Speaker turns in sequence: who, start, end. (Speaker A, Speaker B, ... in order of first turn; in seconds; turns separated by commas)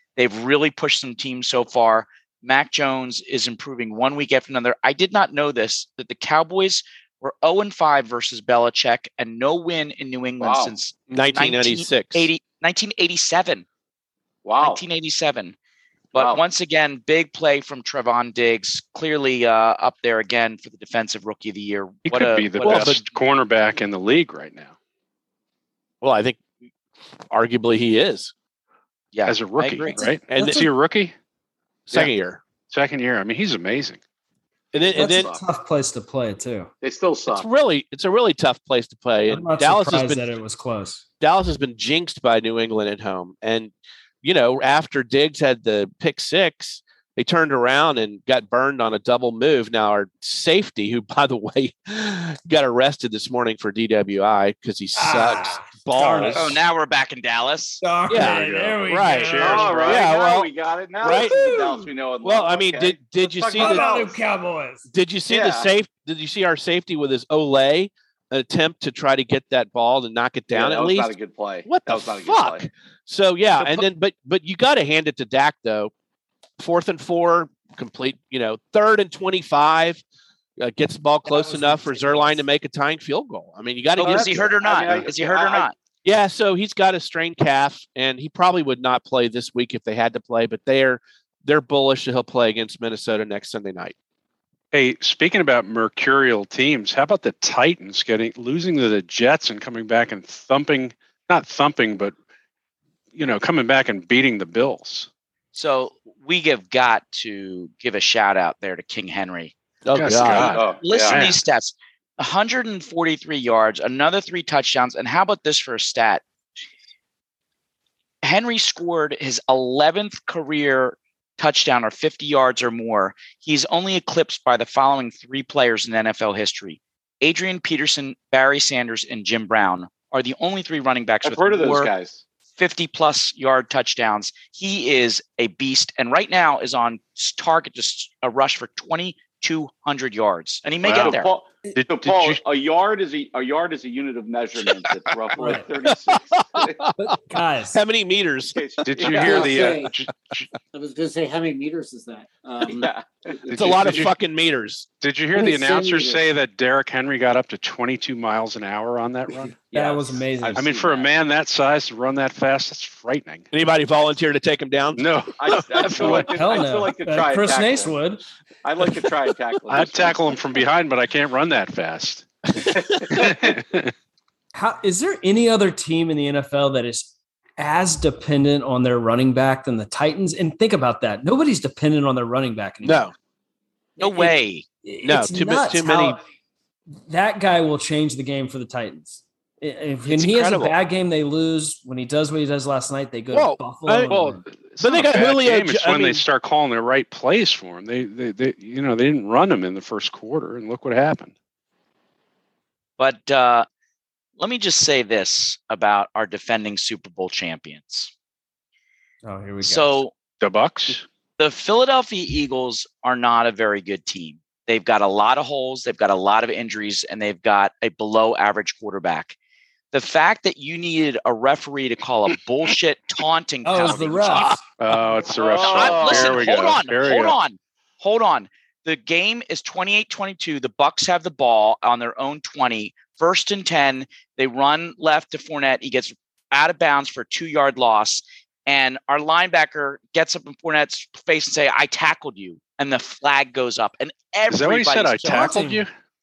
Speaker A: 0.2-13.7, Speaker B: 10.4-10.7, Speaker C: 11.1-12.3, Speaker B: 14.4-14.8, Speaker A: 14.6-15.6, Speaker B: 16.1-16.4, Speaker A: 16.1-23.0, Speaker D: 22.1-24.7, Speaker C: 22.6-23.0, Speaker C: 26.0-26.4, Speaker C: 27.3-28.3, Speaker A: 29.1-30.1, Speaker D: 29.3-31.1, Speaker C: 30.3-30.7, Speaker C: 31.9-32.4, Speaker D: 32.7-34.0, Speaker C: 34.7-35.3, Speaker E: 34.9-36.7, Speaker B: 35.0-35.4, Speaker B: 36.8-37.5, Speaker C: 37.3-40.3, Speaker E: 39.3-41.0, Speaker C: 41.2-56.6, Speaker E: 55.0-56.5, Speaker A: 56.3-57.8, Speaker E: 57.8-60.0, Speaker C: 58.1-60.5, Speaker D: 58.1-60.1, Speaker B: 59.4-64.2, Speaker C: 61.0-63.9, Speaker E: 61.1-61.8, Speaker E: 63.5-64.8, Speaker C: 64.9-75.9, Speaker B: 65.3-65.7, Speaker B: 70.5-72.7, Speaker A: 73.6-73.9, Speaker C: 76.6-80.0, Speaker C: 80.6-84.6, Speaker E: 81.3-82.4, Speaker A: 84.0-85.7, Speaker B: 84.0-85.7, Speaker C: 86.0-93.9, Speaker D: 94.7-102.2, Speaker D: 103.2-105.1, Speaker A: 105.5-109.5, Speaker C: 109.8-110.6, Speaker D: 109.9-111.4, Speaker A: 110.1-116.2, Speaker B: 110.3-111.2, Speaker A: 118.2-131.9, Speaker B: 131.2-132.2, Speaker A: 132.6-141.3, Speaker D: 140.8-141.2, Speaker B: 140.9-146.8, Speaker D: 141.7-142.4, Speaker E: 145.4-145.7, Speaker C: 145.8-147.1, Speaker E: 147.0-147.8, Speaker C: 147.7-148.6, Speaker B: 148.6-149.8, Speaker D: 148.9-150.4, Speaker F: 149.1-149.9, Speaker F: 150.7-152.9, Speaker B: 152.7-154.1, Speaker D: 153.5-154.1, Speaker C: 153.5-154.9, Speaker D: 155.0-159.6, Speaker F: 155.3-156.2, Speaker E: 159.7-160.8, Speaker B: 159.7-161.1, Speaker D: 160.6-163.5, Speaker C: 163.5-165.6, Speaker D: 165.0-166.3, Speaker B: 165.4-168.0, Speaker E: 166.2-168.2, Speaker B: 168.6-170.2, Speaker D: 169.7-172.3, Speaker B: 172.7-173.6, Speaker D: 173.1-173.9, Speaker E: 174.6-183.1, Speaker C: 182.8-183.1, Speaker A: 184.0-184.7, Speaker E: 184.8-186.2, Speaker C: 185.0-186.2, Speaker E: 187.1-194.4, Speaker C: 190.1-190.8, Speaker C: 193.3-194.2, Speaker D: 194.1-201.3, Speaker C: 194.8-196.2, Speaker A: 203.0-203.7, Speaker A: 204.4-208.1, Speaker E: 209.2-210.0, Speaker A: 209.6-210.1, Speaker D: 210.4-211.1, Speaker A: 211.4-219.4, Speaker A: 219.9-224.6, Speaker E: 223.7-224.7, Speaker D: 224.8-227.4, Speaker B: 225.4-226.6, Speaker A: 225.6-245.5, Speaker D: 244.5-245.9, Speaker E: 245.2-245.8